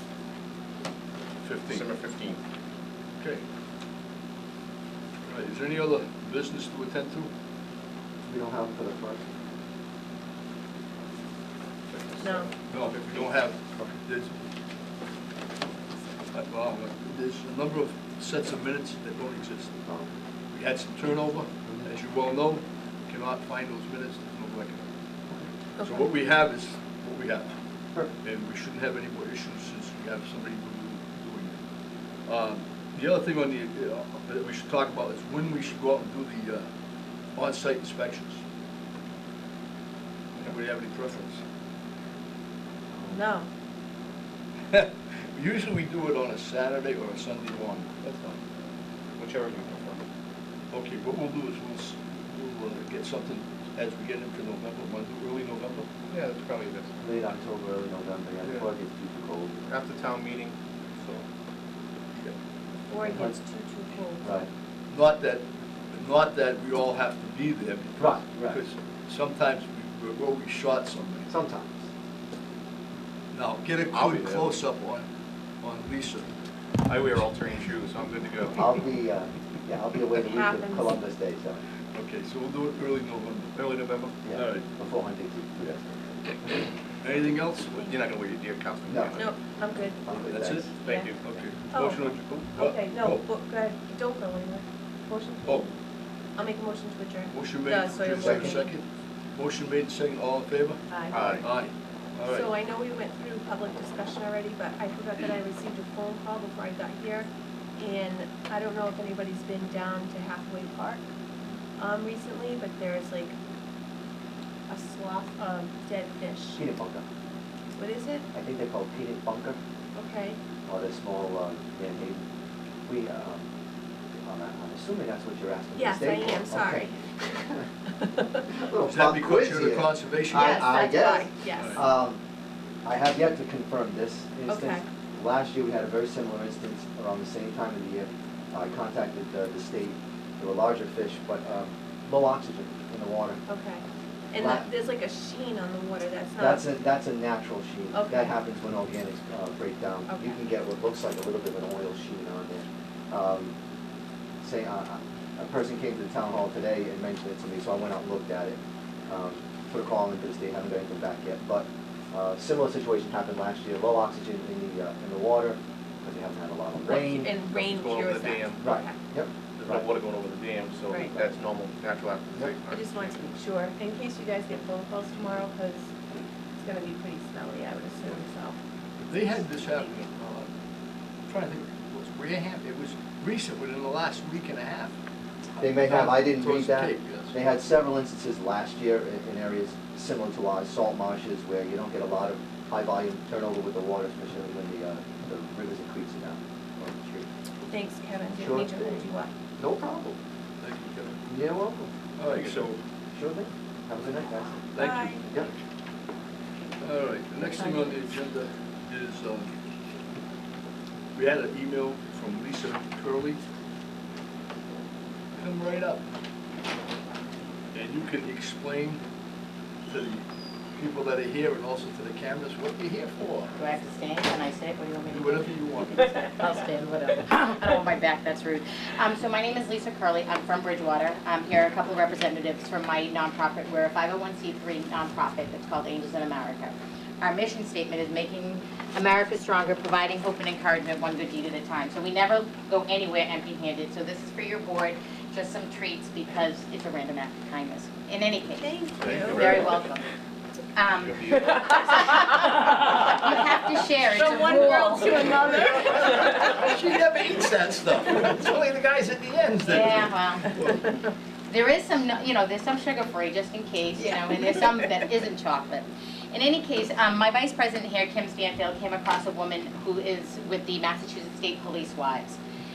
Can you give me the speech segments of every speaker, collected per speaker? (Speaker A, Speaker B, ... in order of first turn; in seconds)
Speaker A: 1.4-1.8, 5.2-7.3, 12.7-14.3, 16.3-19.8, 20.5-24.9, 25.8-27.6, 28.2-31.6, 32.2-36.7, 37.3-38.4, 40.3-41.4, 44.7-47.9, 50.7-55.9, 64.9-71.3, 73.3-75.0, 75.6-76.3, 81.9-83.6, 84.3-84.6, 87.0-87.9, 90.3-93.2, 97.3-102.5, 128.8-130.5, 179.0-180.5, 181.3-185.0, 185.6-187.4, 200.6-201.2, 202.2-202.8, 204.7-205.4, 206.8-209.5, 211.1-213.4, 215.3-216.1, 217.7-219.0, 219.8-220.2, 220.7-223.5, 225.1-226.0, 255.8-260.8
Speaker B: 1.6-2.4, 11.9-13.3, 48.0-48.4, 49.2-50.0, 56.1-56.9, 58.4-58.7, 59.7-61.2, 73.9-74.5, 76.8-78.7, 83.5-84.2, 87.8-89.3, 90.8-91.3, 91.9-92.2, 98.1-98.6, 101.1-101.5, 166.9-168.6, 169.6-173.1, 202.2-202.8, 249.0-249.7, 250.8-252.0
Speaker C: 8.3-9.2, 19.8-20.1, 57.0-59.6, 63.0-63.4, 64.2-64.5, 68.0-68.6, 71.3-71.8, 78.5-81.6, 84.2-86.6, 88.9-89.2, 90.0-90.7, 116.5-117.0, 118.3-119.6, 120.7-122.2, 122.8-123.5, 124.2-127.7, 128.5-132.2, 132.8-143.4, 144.4-144.7, 146.4-153.5, 154.4-167.2, 168.6-169.9, 185.6-197.3, 198.4-199.0, 199.6-200.2, 201.3-201.9, 203.1-205.5
Speaker D: 12.2-12.5, 25.8-26.1, 43.1-43.5, 62.9-64.2, 80.2-81.0, 89.2-90.0, 90.8-91.1, 91.7-95.7, 96.3-98.8, 100.9-101.3, 102.2-111.0, 111.8-113.3, 114.7-116.6, 117.8-118.2, 120.0-120.4, 125.7-126.9, 130.3-131.8, 134.5-134.8, 143.5-146.6, 147.9-148.4, 150.1-150.4, 166.9-169.0, 170.9-171.2, 172.7-175.9, 176.6-178.6, 197.7-199.3, 204.8-205.2, 207.6-207.9, 248.6-249.8, 254.1-256.7
Speaker E: 223.6-250.1, 250.7-255.4, 259.6-260.5, 261.5-272.4